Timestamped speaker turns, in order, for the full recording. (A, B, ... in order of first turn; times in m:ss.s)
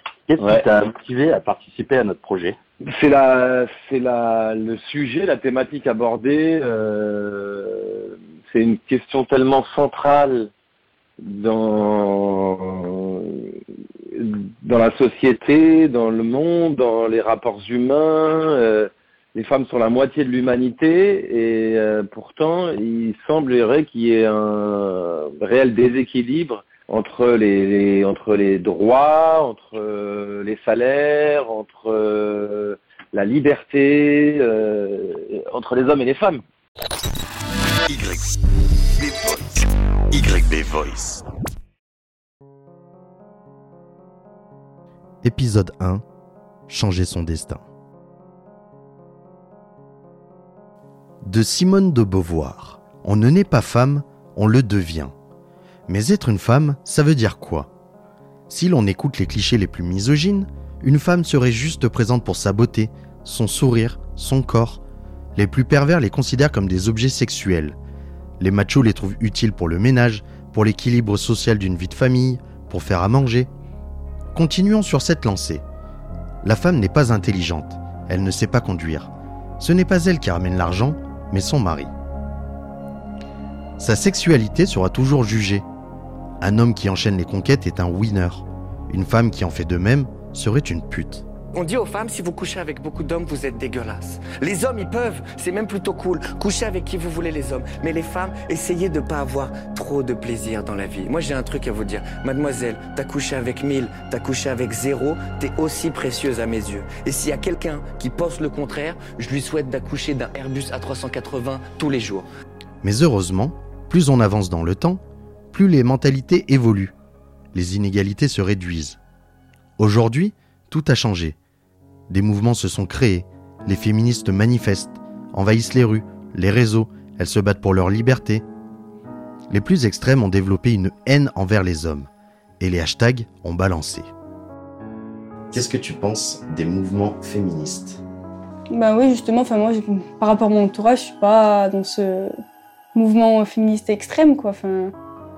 0:00.3-0:02.6 A
0:00.4-0:00.6 B
0:02.9-0:10.5 B
0:11.2-0:13.5 B
0:14.1-0:36.4 B
0:37.9-0:38.2 C
0:39.1-0:39.5 C
0:40.1-0:41.2 C
0:45.2-0:46.0 C
0:46.7-0:47.6 C
0:51.2-0:55.1 C
0:55.9-0:57.7 C
0:58.5-1:04.8 C
1:05.4-1:07.8 C
1:08.4-1:13.5 C
1:14.3-1:15.6 C
1:16.4-1:21.9 C
1:23.8-1:25.6 C
1:26.4-1:31.3 C
1:31.5-1:52.3 D
1:52.8-1:56.9 C
1:57.5-1:59.0 C
1:59.8-2:01.4 C
2:02.1-2:08.4 C
2:09.5-2:14.1 C
2:15.5-2:18.0 C
2:18.7-2:22.3 E
2:22.9-2:24.9 E